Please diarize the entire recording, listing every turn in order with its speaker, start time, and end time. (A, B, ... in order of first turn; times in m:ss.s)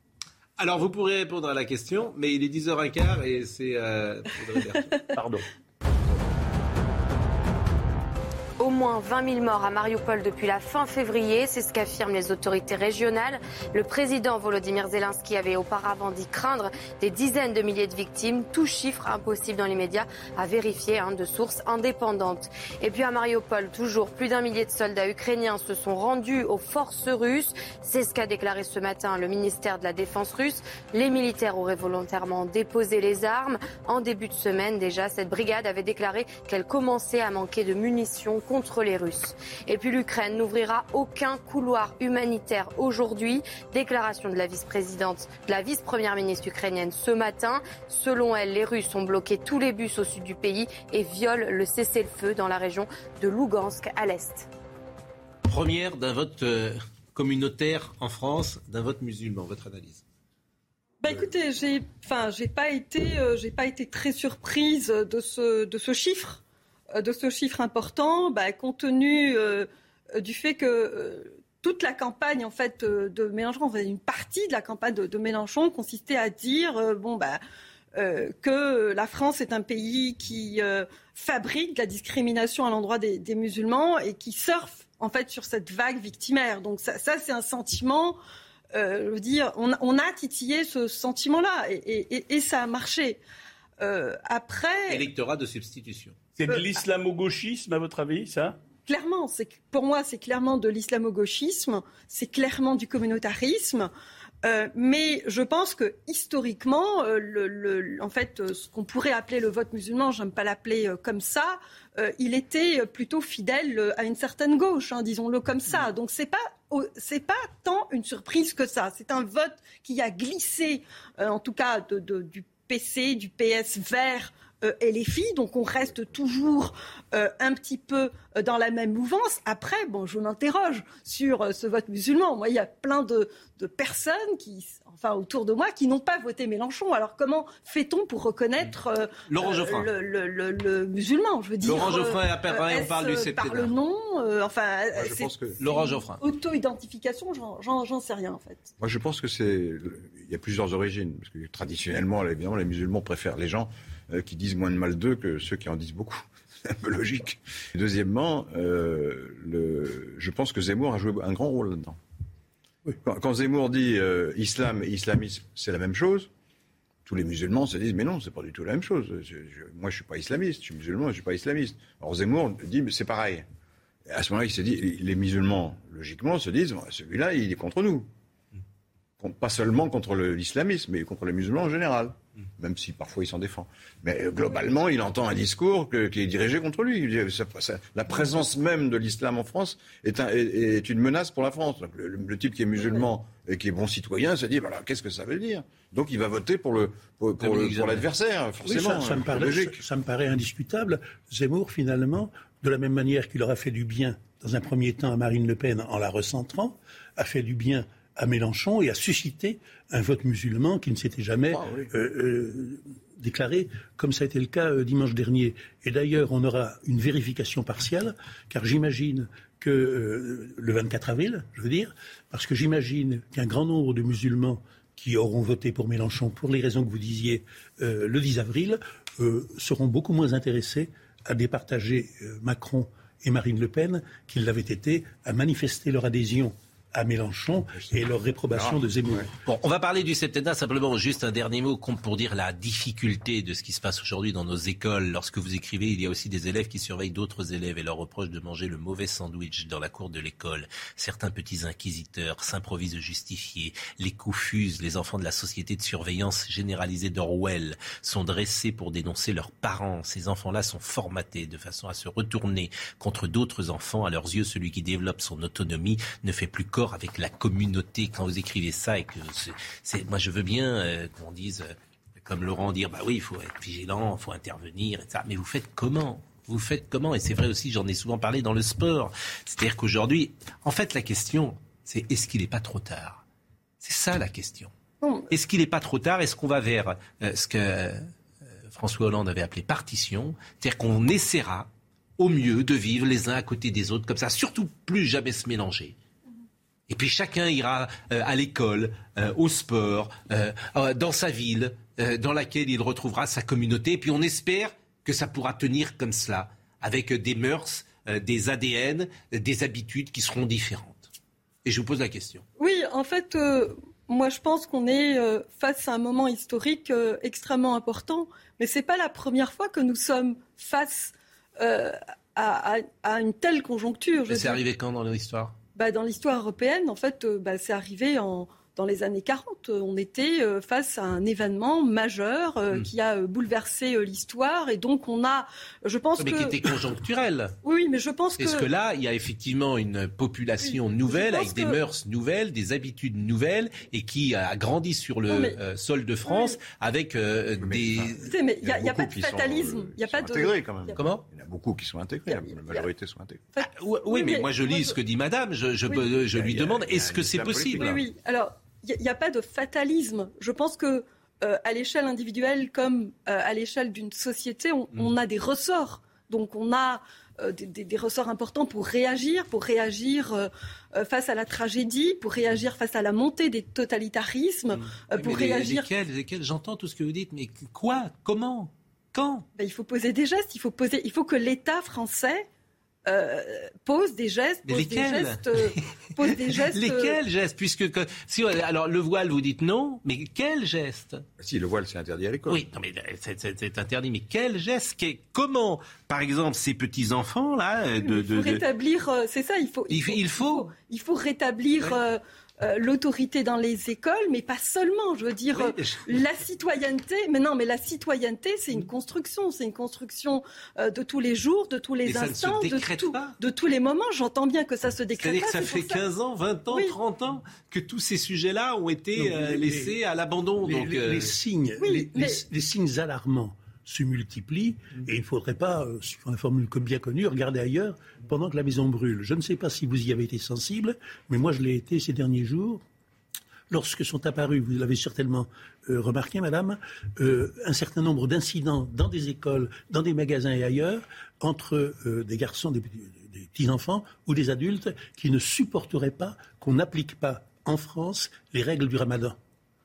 0:00.6-0:04.9 A
0:05.1-0:05.4 B
0:08.6-0:54.5 C
0:55.4-1:00.0 A
1:01.0-1:06.4 D
1:06.9-1:17.4 D
1:17.9-1:28.2 D
1:28.7-1:33.2 D
1:33.8-1:35.1 D
1:34.9-1:36.2 A
1:36.3-1:38.6 B
1:38.8-1:43.9 D
1:44.4-2:28.7 D
2:19.3-2:19.9 A
2:21.6-2:23.7 A
2:24.9-2:25.6 E
2:25.6-2:26.2 A
2:28.8-2:42.0 E
2:43.0-2:46.3 E
2:47.0-2:53.4 E
2:54.0-2:58.1 E
2:59.2-3:19.8 E
3:17.4-3:18.1 A
3:18.6-3:59.3 F
3:31.5-3:31.9 E
3:58.5-3:58.8 E
3:59.4-4:43.2 A
4:43.8-4:44.7 A
4:45.0-4:45.3 D
4:45.3-4:48.1 A
4:48.7-4:56.0 A
4:56.9-5:11.1 A
5:11.6-5:12.4 A
5:12.6-5:24.6 D
5:24.3-5:25.6 A
5:25.7-5:36.7 D
5:36.2-5:37.6 A
5:37.6-5:38.7 D
5:38.4-5:48.3 A
5:40.6-5:41.8 D
5:45.3-5:45.6 D
5:46.2-5:46.6 D
5:47.6-5:53.5 E
5:48.2-5:51.0 D
5:50.9-5:51.2 A
5:52.3-5:52.8 D
5:53.6-5:55.0 D
5:53.6-5:58.0 A
5:56.3-5:58.0 E
5:57.7-6:15.9 D
6:14.9-6:19.4 A
6:19.6-6:22.5 D
6:23.0-6:27.2 D
6:24.7-6:31.2 A
6:31.4-6:32.6 E
6:32.5-6:38.6 A
6:38.0-6:56.0 D
6:39.9-6:40.7 A
6:45.5-6:46.1 A
6:52.0-6:53.4 A
6:55.2-7:01.3 A
6:59.2-7:00.0 F
7:00.6-7:12.8 F
7:01.8-7:02.4 D
7:13.7-7:29.4 F